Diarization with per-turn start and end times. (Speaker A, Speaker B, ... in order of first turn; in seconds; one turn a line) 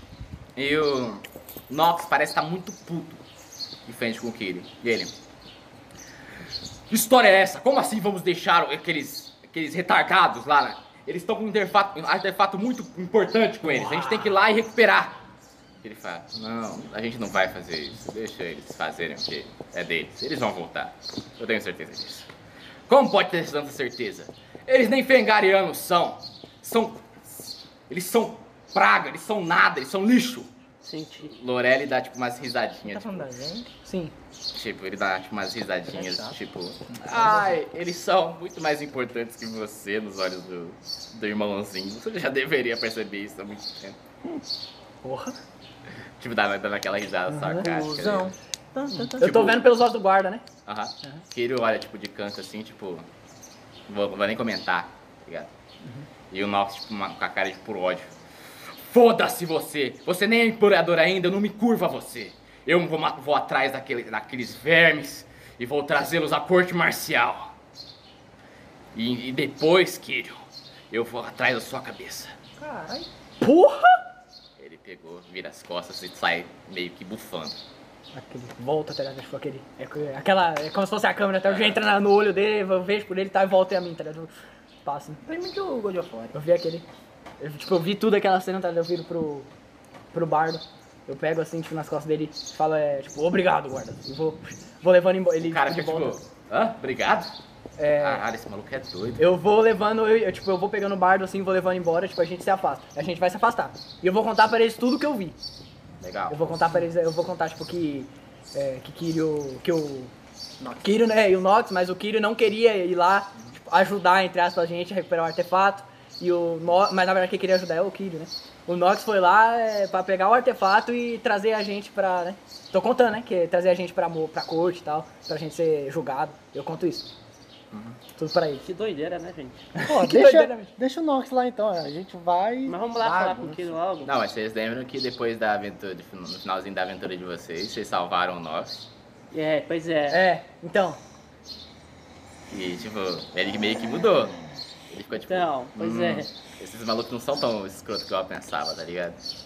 Speaker A: 0.6-3.2
Speaker A: 3.9-5.1
Speaker A: 6.9-15.2
Speaker B: 13.7-14.3
Speaker A: 15.8-22.3
Speaker A: 22.9-27.1
Speaker A: 27.9-30.5
Speaker C: 30.8-31.3
Speaker A: 31.2-33.3
Speaker D: 32.8-33.7
Speaker B: 33.8-34.1
Speaker A: 34.5-44.0
Speaker D: 35.9-36.4
Speaker B: 45.0-45.4
Speaker A: 46.2-48.3
Speaker D: 47.6-49.7
Speaker B: 49.0-50.4
Speaker A: 49.2-49.6
Speaker A: 50.6-53.1
Speaker A: 53.9-55.5
Speaker A: 56.3-67.5
Speaker A: 68.9-70.4
Speaker A: 70.9-72.3
Speaker D: 72.6-73.1
Speaker B: 73.4-74.0
Speaker A: 74.6-77.6
Speaker B: 78.1-84.3
Speaker A: 81.4-81.8
Speaker B: 84.8-85.2
Speaker D: 85.2-86.3
Speaker B: 86.3-86.8
Speaker B: 87.4-89.5
Speaker B: 90.1-96.2
Speaker A: 95.4-97.3
Speaker B: 97.8-98.2
Speaker A: 98.0-99.2
Speaker B: 99.2-105.3
Speaker A: 106.0-106.6
Speaker B: 106.3-110.1
Speaker D: 110.6-110.8
Speaker B: 110.8-127.1
Speaker A: 127.7-128.0
Speaker B: 128.2-128.7
Speaker C: 128.6-129.7
Speaker B: 129.8-130.7
Speaker E: 129.8-132.8
Speaker C: 132.7-134.1
Speaker D: 133.0-133.8
Speaker A: 134.0-138.8
Speaker C: 139.3-140.2
Speaker B: 140.1-141.0
Speaker A: 142.5-144.3
Speaker A: 144.9-149.2
Speaker C: 145.2-146.3